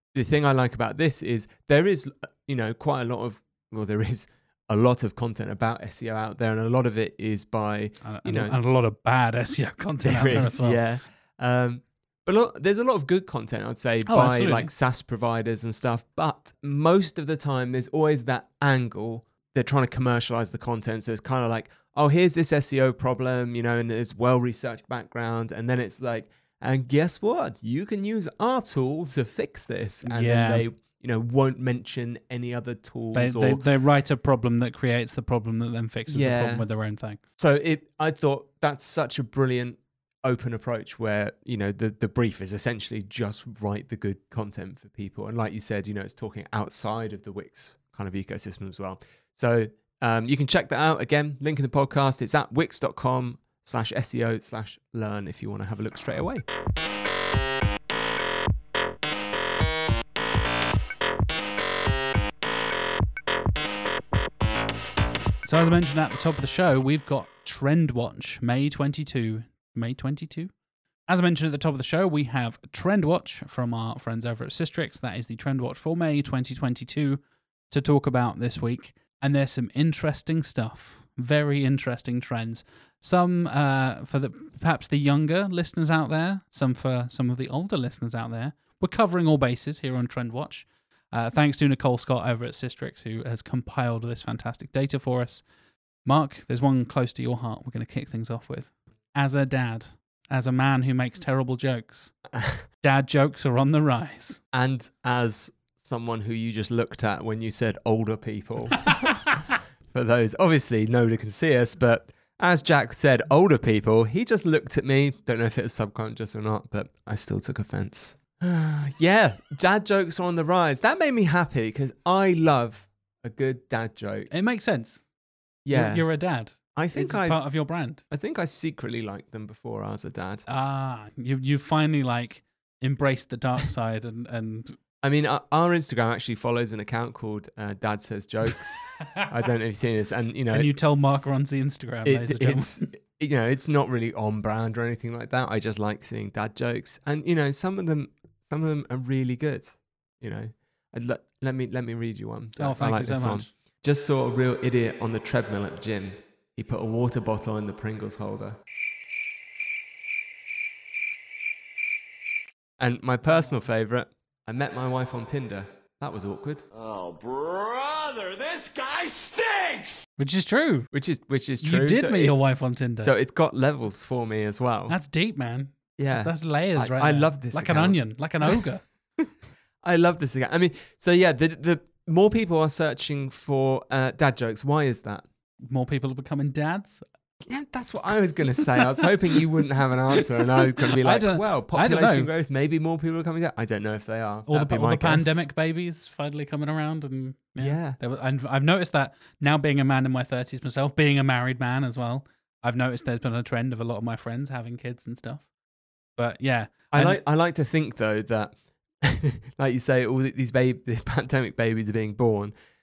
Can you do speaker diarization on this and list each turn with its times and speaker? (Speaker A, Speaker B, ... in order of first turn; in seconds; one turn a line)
Speaker A: 0.1-8.6
Speaker B: 8.0-10.8
Speaker A: 10.0-33.6
Speaker B: 14.1-14.7
Speaker B: 30.0-30.6
Speaker B: 33.1-37.2
Speaker A: 36.1-36.6
Speaker A: 37.4-56.4
Speaker B: 65.4-70.5
Speaker B: 71.1-95.4
Speaker B: 96.0-102.1
Speaker A: 102.3-102.6
Speaker B: 102.8-104.4
Speaker A: 104.5-124.3
Speaker B: 124.3-125.0
Speaker A: 125.6-126.0
Speaker B: 125.7-128.0
Speaker A: 126.7-127.4
Speaker A: 128.1-130.4
Speaker B: 130.5-134.8
Speaker A: 135.0-140.7
Speaker B: 140.5-142.8
Speaker A: 142.0-158.6
Speaker B: 152.6-153.5
Speaker A: 162.8-166.6
Speaker C: 166.7-170.1
Speaker B: 170.2-170.9
Speaker A: 170.9-172.3
Speaker B: 171.6-173.1
Speaker A: 173.0-174.9
Speaker B: 174.9-178.8
Speaker A: 176.0-178.6
Speaker A: 179.8-185.2
Speaker B: 185.7-187.0
Speaker A: 187.4-195.5
Speaker B: 190.4-192.3
Speaker B: 194.5-205.5
Speaker A: 197.6-198.0
Speaker B: 206.2-207.2
Speaker A: 206.9-212.5